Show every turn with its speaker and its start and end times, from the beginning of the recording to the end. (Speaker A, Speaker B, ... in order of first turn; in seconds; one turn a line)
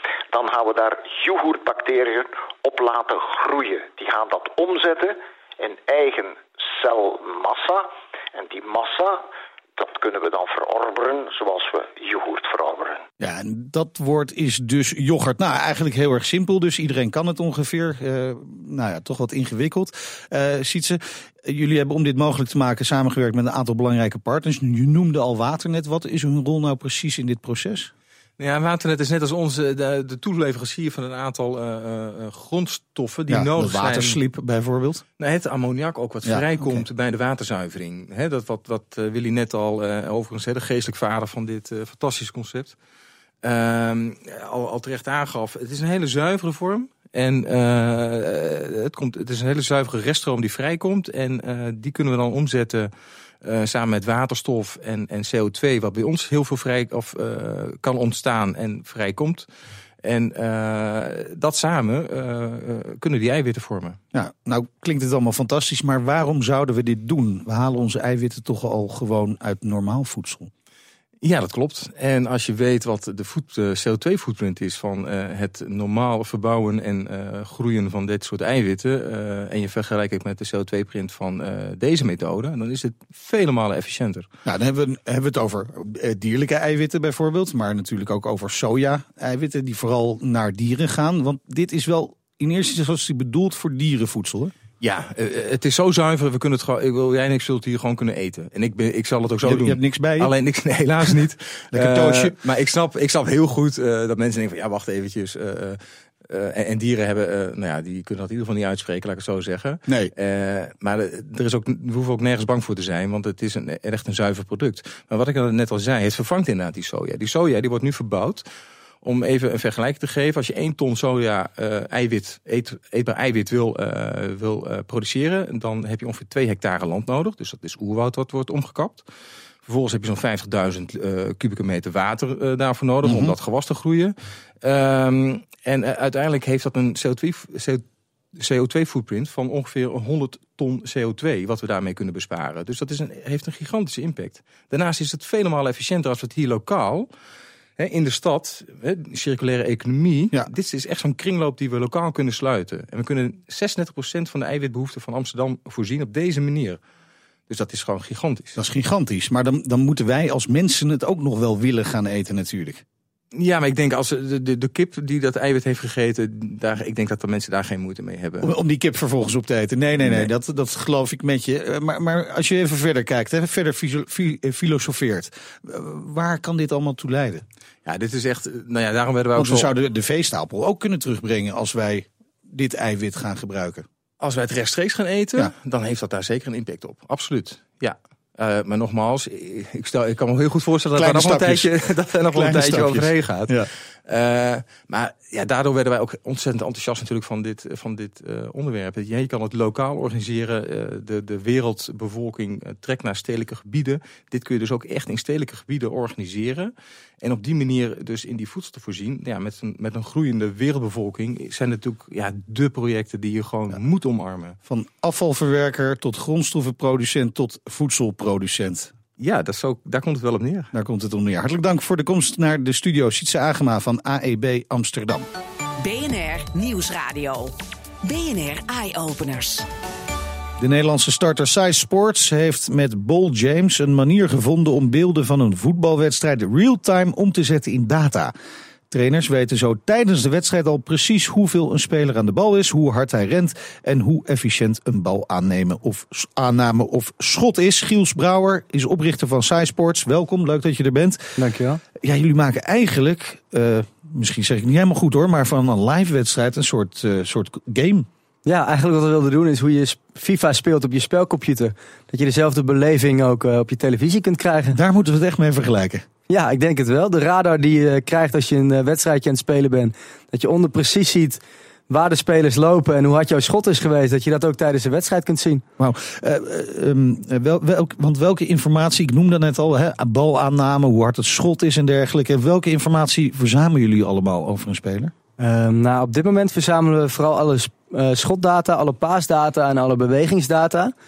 Speaker A: 0.3-13.0
Speaker B: 13.2-27.9
Speaker C: 28.4-34.2
Speaker B: 33.3-35.0
Speaker C: 35.2-42.8
Speaker B: 36.2-36.9
Speaker C: 43.4-52.9
Speaker C: 53.4-59.5
Speaker C: 60.0-64.0
Speaker B: 64.1-70.5
Speaker C: 71.2-84.3
Speaker B: 84.5-94.5
Speaker C: 94.8-118.5
Speaker B: 99.4-100.3
Speaker B: 101.7-102.4
Speaker B: 109.9-110.1
Speaker C: 119.0-129.1
Speaker C: 129.7-137.8
Speaker B: 133.0-133.3
Speaker C: 138.4-147.1
Speaker C: 147.8-156.8
Speaker C: 157.5-158.6
Speaker B: 158.6-162.8
Speaker C: 163.3-168.5
Speaker B: 168.4-177.4
Speaker C: 177.9-179.7
Speaker B: 179.4-183.9
Speaker C: 184.2-214.6
Speaker B: 190.9-191.7
Speaker B: 192.3-193.7
Speaker B: 214.7-218.9
Speaker C: 219.2-220.7
Speaker B: 220.7-225.3
Speaker D: 225.8-229.7
Speaker B: 230.6-238.3
Speaker B: 238.9-251.3
Speaker E: 251.4-251.8
Speaker B: 252.0-258.1
Speaker E: 258.5-264.8
Speaker B: 264.7-266.1
Speaker E: 266.3-275.6
Speaker B: 275.8-285.1
Speaker E: 285.4-290.9